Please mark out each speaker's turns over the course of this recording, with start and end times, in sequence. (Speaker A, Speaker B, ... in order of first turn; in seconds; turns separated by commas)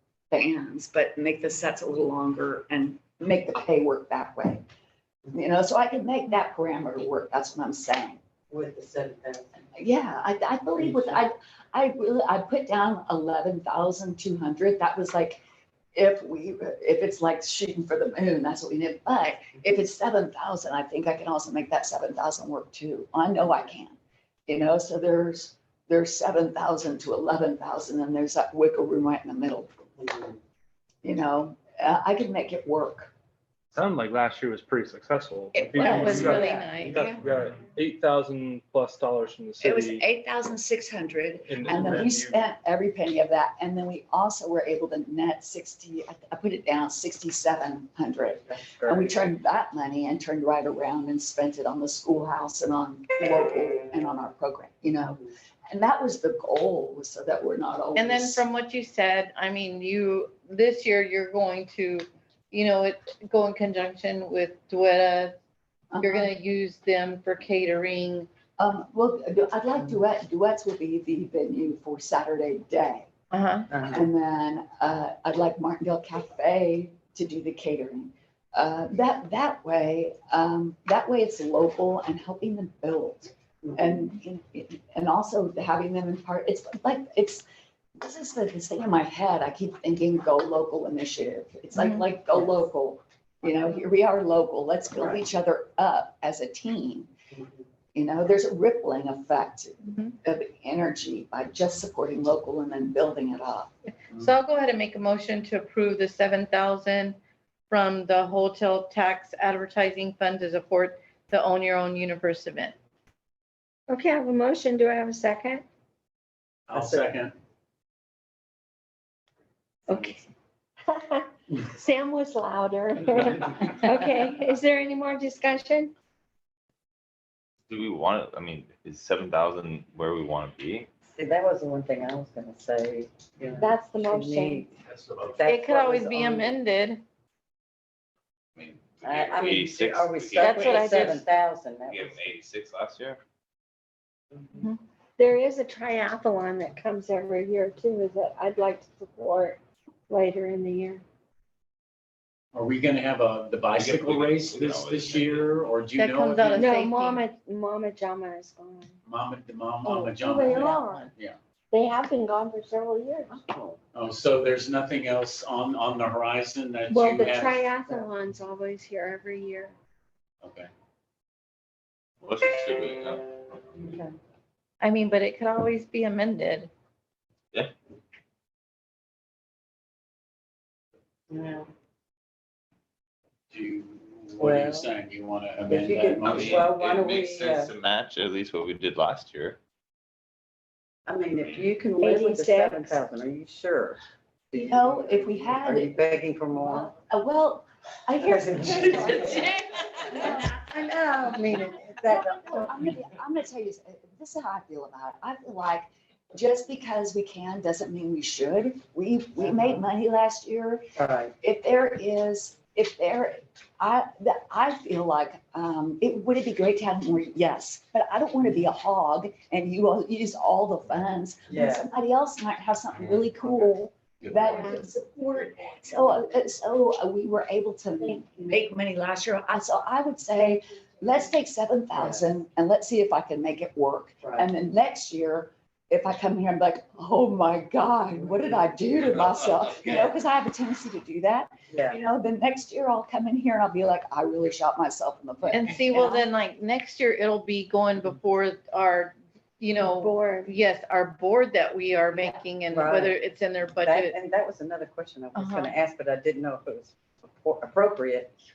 Speaker A: 0.3-4.6, Speaker A: 5.3-8.2, Speaker B: 8.5-9.5, Speaker A: 9.7-15.4, Speaker B: 10.8-11.2, Speaker A: 15.9-29.7, Speaker A: 31.0-33.1, Speaker C: 33.7-40.0, Speaker A: 35.5-37.1, Speaker D: 35.8-37.2, Speaker B: 36.2-36.7, Speaker A: 39.6-58.4, Speaker C: 41.5-42.4, Speaker B: 48.5-49.1, Speaker D: 57.9-65.3, Speaker A: 65.9-66.3, Speaker D: 66.0-68.3, Speaker A: 68.6-73.1, Speaker D: 73.3-73.7, Speaker B: 73.7-74.1, Speaker A: 73.9-87.4, Speaker A: 88.0-97.1, Speaker D: 91.7-92.1, Speaker A: 97.9-103.7, Speaker D: 104.1-107.2, Speaker D: 107.7-112.7, Speaker E: 113.9-115.6, Speaker F: 116.7-117.3, Speaker B: 116.7-117.2, Speaker E: 119.9-120.2, Speaker E: 120.9-125.9, Speaker G: 127.7-130.9, Speaker B: 131.1-136.6, Speaker E: 133.6-134.7, Speaker D: 135.4-137.0, Speaker G: 138.6-141.2, Speaker B: 139.0-142.3, Speaker D: 140.4-141.2, Speaker G: 141.9-143.2, Speaker E: 145.2-151.0, Speaker F: 152.5-156.7, Speaker G: 153.7-155.5, Speaker D: 155.9-157.2, Speaker E: 156.5-158.9, Speaker F: 159.0-161.4, Speaker E: 159.8-161.1, Speaker E: 161.7-163.4, Speaker B: 163.3-163.8, Speaker F: 163.9-167.7, Speaker E: 166.9-169.7, Speaker F: 170.4-170.7, Speaker G: 172.2-173.9, Speaker B: 173.8-174.1, Speaker D: 174.8-176.7, Speaker B: 181.3-181.7, Speaker F: 183.5-186.7, Speaker B: 184.4-184.9, Speaker B: 185.7-187.7, Speaker G: 186.2-189.6, Speaker B: 191.1-194.0, Speaker E: 192.0-193.0, Speaker B: 194.5-196.9, Speaker A: 194.5-200.6, Speaker B: 198.2-199.5, Speaker B: 200.1-202.8, Speaker A: 202.1-210.8, Speaker B: 209.4-209.8, Speaker B: 210.9-211.3, Speaker A: 211.4-246.2, Speaker B: 221.5-221.9, Speaker E: 224.5-224.8, Speaker E: 228.0-228.6, Speaker B: 231.9-232.3, Speaker B: 234.2-234.5, Speaker B: 239.7-240.2, Speaker B: 241.7-242.0, Speaker D: 245.5-254.2, Speaker E: 249.8-250.5, Speaker B: 252.7-253.2, Speaker B: 253.8-258.3, Speaker D: 255.3-255.8